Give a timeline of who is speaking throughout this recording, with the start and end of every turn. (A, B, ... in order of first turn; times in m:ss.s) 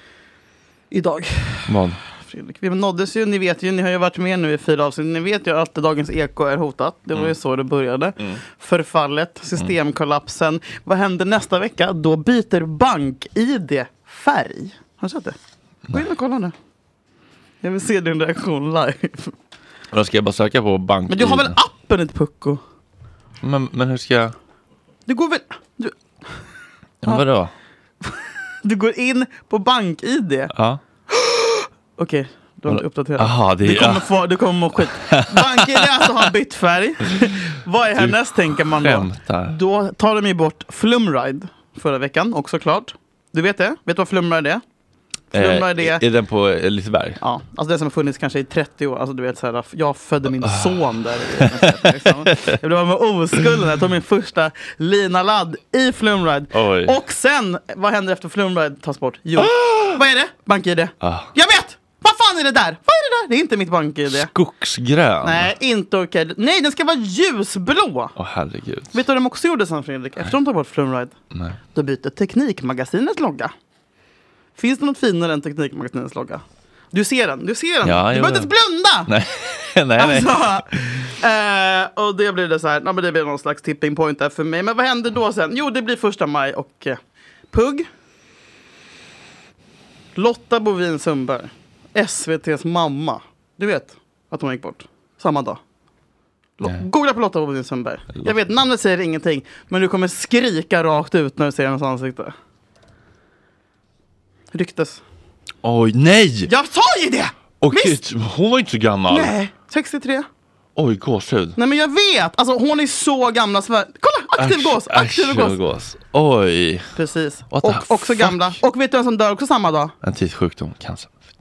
0:00.9-0:01.7 A
0:01.7-0:02.0 B
0:02.2-0:15.4 A
0:15.9-0:16.5 A
0:17.6-0:19.3 A
0:19.9-0:21.6 B
0:21.1-0:22.6 A
0:23.4-0:24.3 B
0:25.1-0:25.9 A
0:27.0-0:27.5 B
0:28.0-0:30.5 A
0:30.5-0:30.8 B
0:31.1-0:44.6 A
0:32.7-0:34.1 B
0:34.9-0:36.2 B
0:38.0-0:39.6 B
0:45.3-0:46.0 A
0:45.3-0:47.2 B
0:47.2-1:04.3 A
0:50.4-0:50.8 B
0:51.4-0:51.8 B
0:56.5-0:56.9 B
0:59.4-1:00.0 B
1:01.0-1:01.3 B
1:04.1-1:05.5 B
1:05.2-1:08.1 A
1:08.2-1:09.0 B
1:08.9-1:11.1 A
1:11.3-1:11.6 B
1:11.7-1:13.5 A
1:14.6-1:19.1 A
1:17.8-1:18.5 B
1:19.1-1:21.0 B
1:20.0-1:27.0 A
1:27.5-1:27.9 A
1:30.2-1:35.6 A
1:36.6-1:42.3 A
1:44.5-1:45.0 A
1:45.6-1:46.5 B
1:46.5-1:48.0 A
1:47.6-1:49.3 B
1:49.1-1:50.3 A
1:50.8-1:51.6 B
1:51.6-1:55.6 A
1:54.4-1:56.9 B
1:57.0-1:59.9 A
1:57.5-1:58.6 B
2:00.0-2:01.2 B